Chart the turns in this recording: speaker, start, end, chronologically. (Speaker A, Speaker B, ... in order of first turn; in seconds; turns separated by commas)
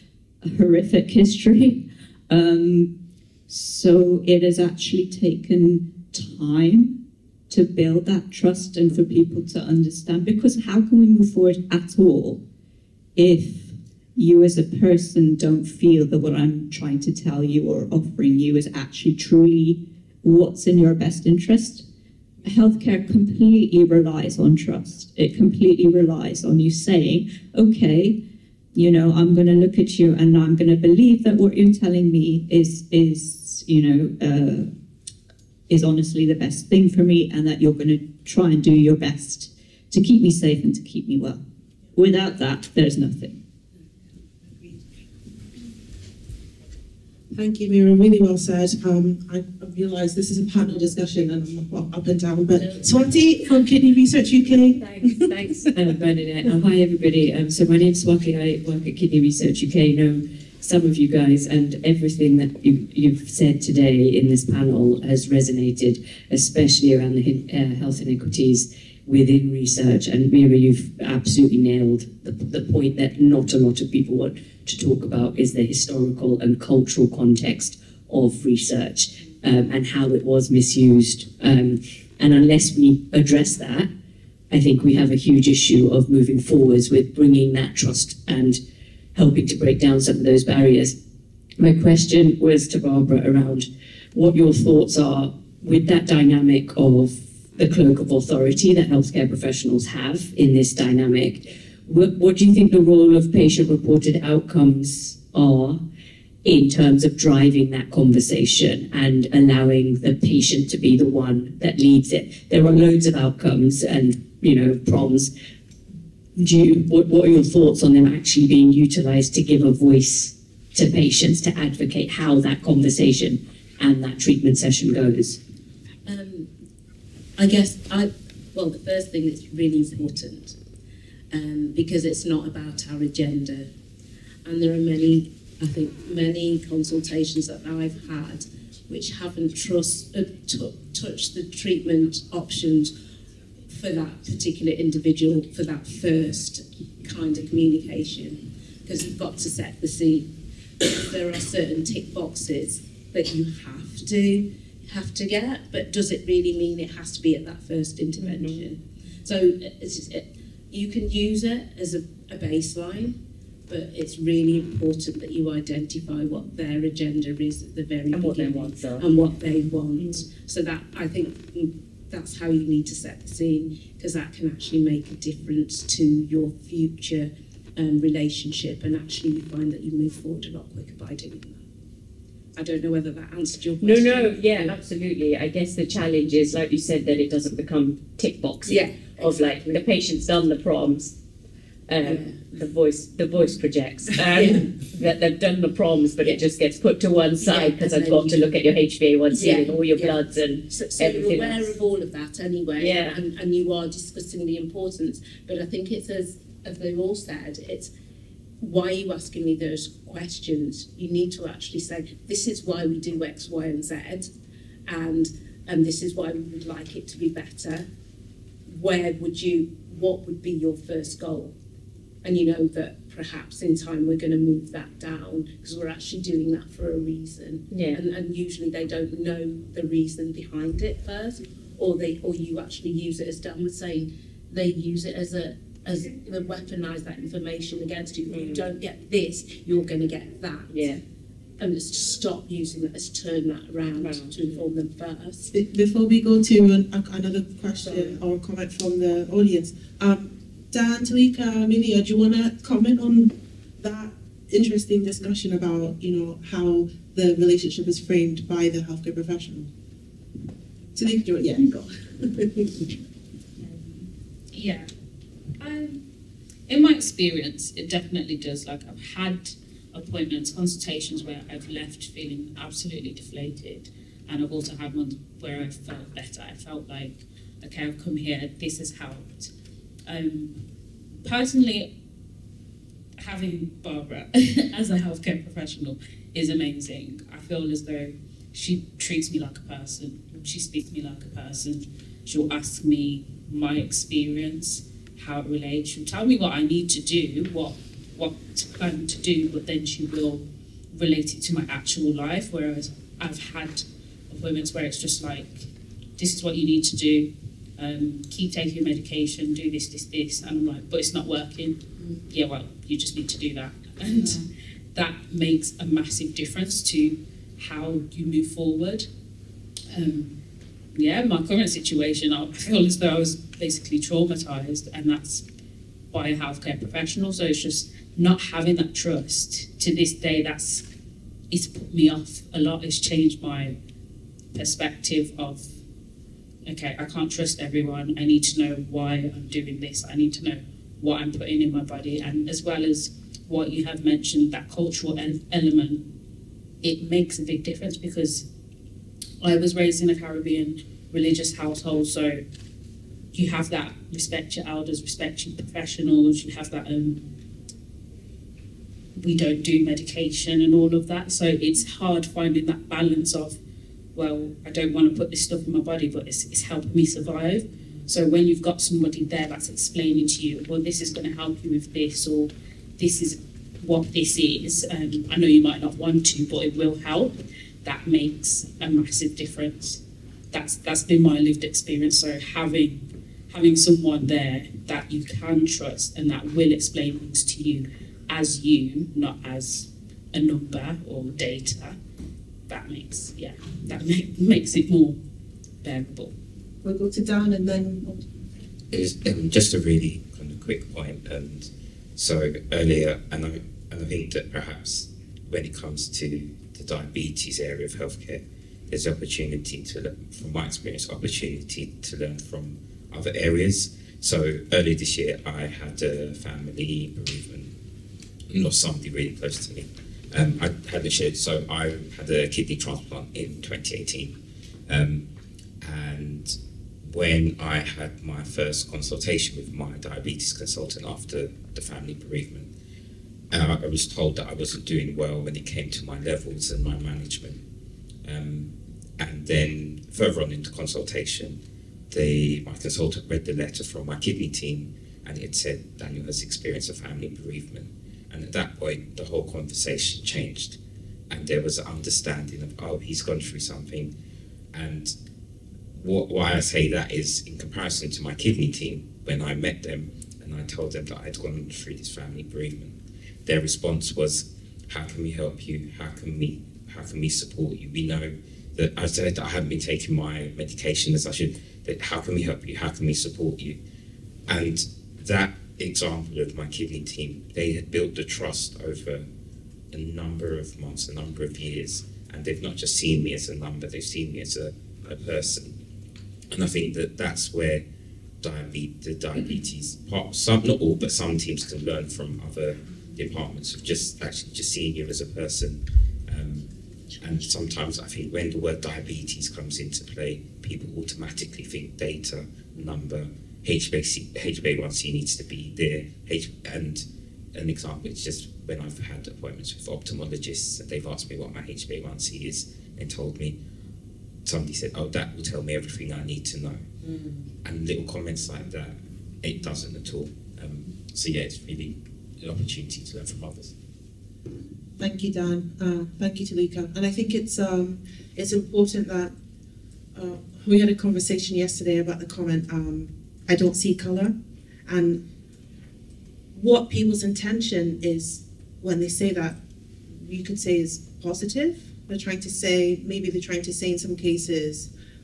Speaker A: 0.4-2.9, Speaker A: 3.5-7.0, Speaker A: 7.5-12.4, Speaker A: 13.2-21.9, Speaker A: 22.4-28.2, Speaker A: 28.7-34.7, Speaker A: 35.7-41.4, Speaker A: 41.9-43.4, Speaker B: 47.3-55.7, Speaker C: 52.6-52.9, Speaker D: 54.8-83.9, Speaker D: 84.5-88.6, Speaker D: 89.1-91.0, Speaker D: 91.6-105.8, Speaker D: 106.4-115.3, Speaker D: 116.3-125.4, Speaker C: 126.0-126.5, Speaker C: 127.4-130.6, Speaker C: 131.3-133.7, Speaker C: 134.4-142.9, Speaker C: 143.7-150.3, Speaker C: 150.8-163.1, Speaker C: 163.7-181.6, Speaker D: 168.2-168.9, Speaker C: 182.6-184.8, Speaker D: 183.8-191.1, Speaker C: 188.7-189.9, Speaker D: 191.9-201.6, Speaker C: 192.0-192.4, Speaker C: 194.2-194.7, Speaker C: 197.4-198.6, Speaker C: 199.3-207.9, Speaker D: 202.8-203.1, Speaker C: 208.6-214.3, Speaker C: 214.9-217.9, Speaker C: 218.7-221.5, Speaker C: 222.2-240.9, Speaker C: 241.6-245.5, Speaker B: 245.5-259.7, Speaker B: 260.9-262.9, Speaker E: 264.5-264.9, Speaker E: 265.6-266.0, Speaker E: 266.7-279.5, Speaker E: 280.1-280.6, Speaker E: 281.2-281.9, Speaker E: 283.2-319.1, Speaker E: 319.9-320.3, Speaker E: 320.9-325.4, Speaker E: 326.1-330.8, Speaker E: 331.5-333.7, Speaker E: 334.5-335.7, Speaker E: 336.6-346.0, Speaker E: 346.8-348.4, Speaker E: 349.4-352.4, Speaker E: 353.3-357.2, Speaker E: 359.2-363.6, Speaker E: 364.1-392.0, Speaker E: 392.7-395.2, Speaker E: 395.8-396.3, Speaker B: 396.8-398.4, Speaker F: 398.9-417.7, Speaker F: 418.5-424.4, Speaker F: 424.9-425.2, Speaker F: 425.8-426.6, Speaker F: 427.1-432.7, Speaker F: 433.5-437.6, Speaker F: 438.2-441.6, Speaker F: 442.1-450.8, Speaker F: 451.3-454.1, Speaker F: 454.7-455.1, Speaker F: 455.9-473.8, Speaker F: 474.5-479.2, Speaker F: 479.9-485.8, Speaker F: 486.5-487.8, Speaker F: 488.4-496.7, Speaker F: 497.2-513.5, Speaker F: 514.4-516.8, Speaker B: 517.0-517.4, Speaker F: 517.6-523.7, Speaker B: 525.0-529.3, Speaker B: 530.1-534.3, Speaker B: 534.9-535.2, Speaker B: 536.5-539.6, Speaker B: 540.1-544.9